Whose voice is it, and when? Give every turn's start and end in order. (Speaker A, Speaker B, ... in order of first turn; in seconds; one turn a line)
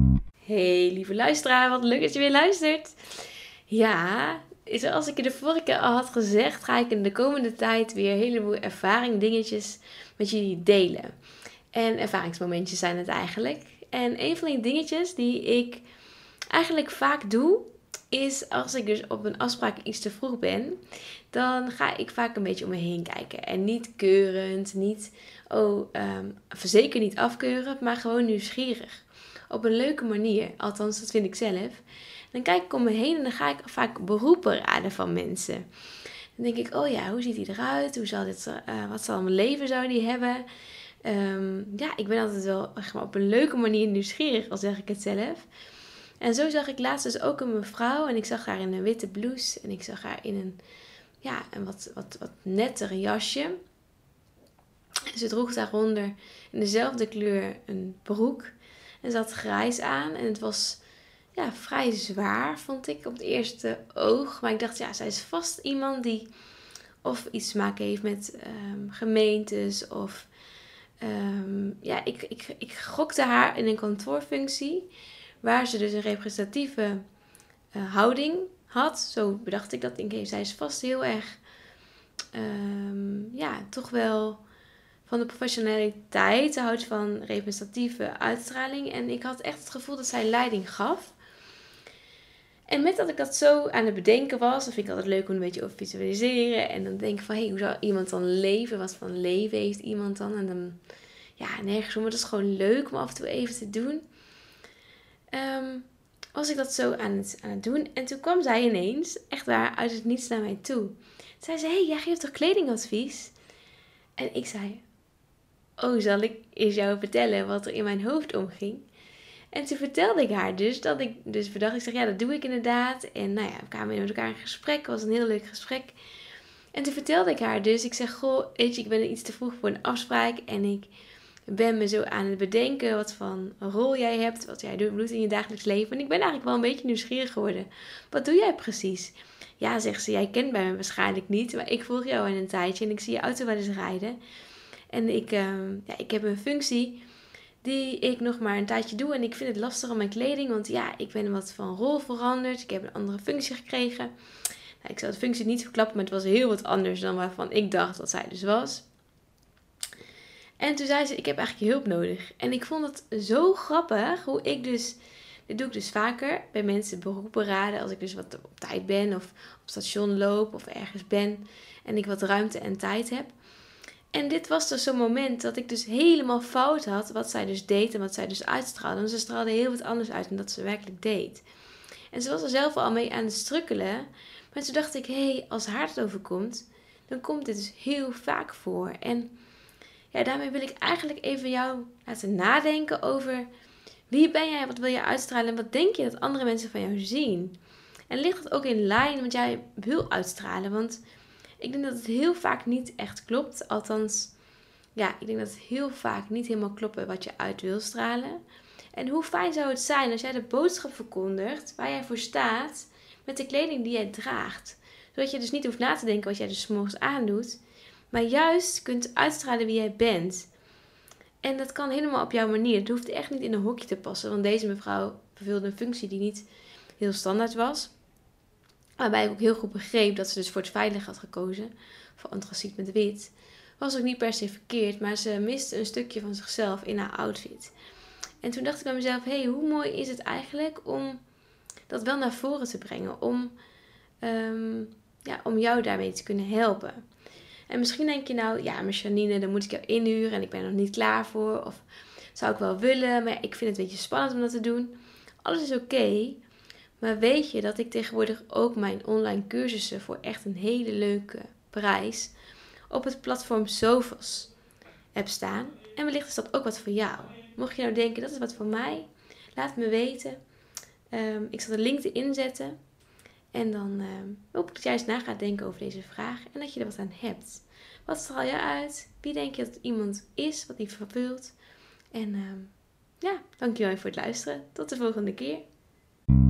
Speaker A: 0.4-3.0
Speaker A: 3.7-11.1
Speaker A: 11.7-15.8
Speaker A: 16.5-20.8
Speaker A: 21.3-35.7
Speaker A: 36.4-40.5
Speaker A: 41.0-45.5
Speaker A: 46.2-50.6
Speaker A: 51.2-53.6
Speaker A: 55.1-60.8
Speaker A: 61.3-66.3
Speaker A: 67.0-70.3
Speaker A: 71.0-74.9
Speaker A: 75.4-77.0
Speaker A: 77.7-81.4
Speaker A: 82.3-84.4
Speaker A: 85.0-91.1
Speaker A: 92.7-100.8
Speaker A: 101.4-104.0
Speaker A: 105.3-113.3
Speaker A: 114.2-114.8
Speaker A: 115.8-118.8
Speaker A: 119.5-126.0
Speaker A: 126.7-130.9
Speaker A: 131.5-144.2
Speaker A: 144.9-147.0
Speaker A: 147.6-154.1
Speaker A: 154.8-158.8
Speaker A: 160.6-173.3
Speaker A: 174.1-181.4
Speaker A: 182.1-189.3
Speaker A: 190.1-193.5
Speaker A: 194.1-197.6
Speaker A: 198.1-201.0
Speaker A: 201.6-204.3
Speaker A: 204.9-208.4
Speaker A: 208.9-217.6
Speaker A: 218.1-220.5
Speaker A: 221.4-226.4
Speaker A: 227.0-227.9
Speaker A: 229.0-237.7
Speaker A: 238.4-241.2
Speaker A: 241.9-243.6
Speaker A: 244.2-247.0
Speaker A: 247.7-256.4
Speaker A: 257.0-262.3
Speaker A: 262.9-264.5
Speaker A: 265.1-270.4
Speaker A: 271.1-272.8
Speaker A: 273.5-281.6
Speaker A: 282.1-285.6